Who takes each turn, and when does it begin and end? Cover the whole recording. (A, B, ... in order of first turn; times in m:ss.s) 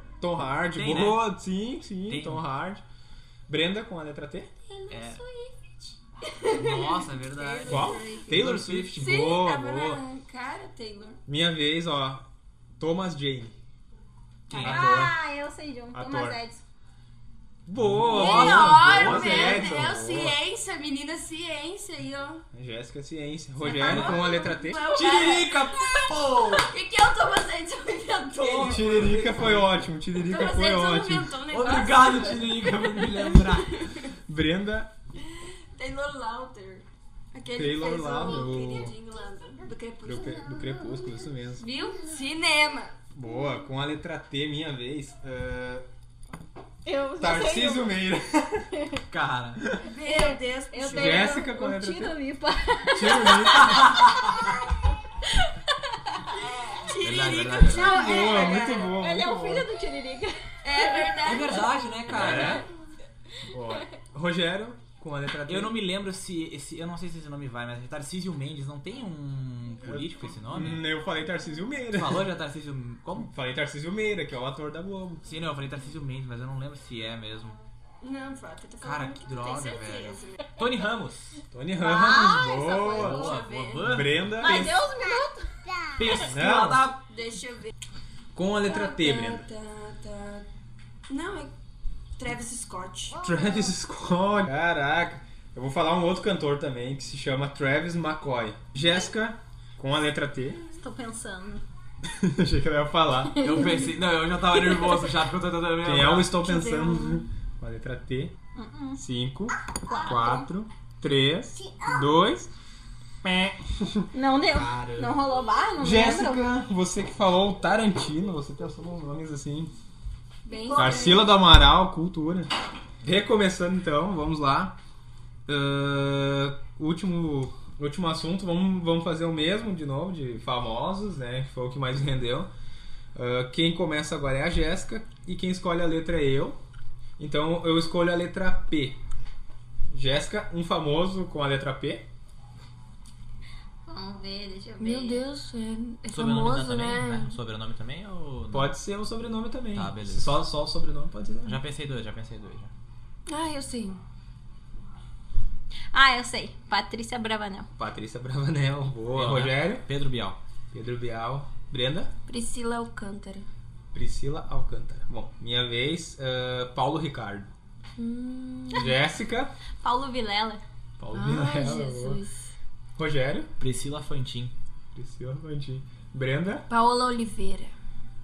0:00.2-0:02.8 A
0:00.7-0:01.3 B
0:02.1-0:02.4 B
0:03.5-0:04.5 A
0:04.7-0:05.5 C
0:04.9-0:05.2 B
0:06.4-0:06.7 C
0:06.5-0:09.2 B
0:07.3-0:08.3 D
0:07.6-0:10.0 A
0:09.0-0:11.2 C
0:11.3-0:12.2 A
0:12.8-0:13.6 A
0:14.5-0:15.1 B
0:14.5-0:15.2 A
0:14.6-0:16.6 D
0:15.9-0:16.4 A
0:17.7-0:20.4 A
0:17.8-0:19.9 B
0:18.1-0:22.4 C
0:22.5-0:24.8 A
0:23.6-0:29.0 C
0:23.6-0:24.2 B
0:24.9-0:26.7 B
0:28.3-0:29.8 B
0:28.6-0:31.4 A
0:30.2-0:33.9 C
0:31.5-0:33.8 B
0:34.3-0:34.9 A
0:35.8-0:40.6 C
0:37.5-0:38.9 A
0:40.0-0:41.6 A
0:41.6-0:43.0 C
0:43.1-0:45.9 A
0:46.8-0:48.0 D
0:47.2-0:48.7 A
0:48.8-0:49.0 D
0:49.1-0:49.6 B
0:49.8-0:51.5 C
0:50.1-0:54.0 D
0:50.9-0:52.2 A
0:52.9-0:54.0 A
0:53.6-0:54.2 B
0:56.3-0:58.9 C
0:57.0-0:58.2 B
0:57.8-0:59.7 A
0:57.8-1:01.3 D
1:00.6-1:01.8 C
1:01.2-1:02.6 B
1:02.1-1:02.7 A
1:03.5-1:05.8 A
1:05.5-1:10.8 B
1:09.8-1:12.3 A
1:11.9-1:13.3 B
1:13.2-1:15.2 A
1:15.2-1:17.6 B
1:18.0-1:20.4 C
1:18.8-1:21.4 B
1:21.5-1:24.8 A
1:21.8-1:23.0 D
1:22.2-1:23.9 C
1:22.9-1:24.4 B
1:24.4-1:26.2 D
1:26.0-1:27.0 B
1:26.3-1:26.9 A
1:27.1-1:27.7 C
1:28.3-1:29.4 A
1:28.6-1:30.5 C
1:31.1-1:31.5 C
1:32.2-1:33.5 C
1:33.2-1:40.6 A
1:40.7-1:41.6 D
1:42.0-1:43.5 A
1:43.4-1:43.9 D
1:43.4-1:46.4 B
1:44.6-1:45.0 D
1:45.8-1:48.4 A
1:46.4-1:47.2 C
1:48.5-1:49.0 D
1:49.0-1:52.5 A
1:49.8-1:50.5 D
1:51.6-1:52.0 D
1:53.2-1:54.1 A
1:54.1-1:56.5 D
1:54.8-1:55.0 A
1:55.8-1:59.7 A
2:00.5-2:01.4 C
2:00.5-2:01.2 D
2:00.7-2:02.5 A
2:03.0-2:04.8 A
2:05.5-2:12.5 A
2:13.2-2:16.6 A
2:17.2-2:19.0 A
2:19.9-2:22.0 A
2:23.9-2:25.2 D
2:24.8-2:27.3 C
2:26.1-2:28.7 B
2:28.5-2:31.6 A
2:29.7-2:30.4 B
2:31.4-2:32.7 B
2:33.3-2:34.0 C
2:35.9-2:37.7 D
2:37.8-2:39.9 A
2:39.1-2:40.4 B
2:40.7-2:42.1 A
2:42.3-2:43.5 C
2:43.9-2:47.5 A
2:48.0-2:48.9 C
2:48.7-2:49.5 A
2:49.8-2:50.6 D
2:51.0-2:52.2 A
2:51.1-2:52.4 C
2:53.0-2:53.5 A
2:53.6-2:54.5 B
2:55.0-2:56.7 A
2:56.7-2:57.7 C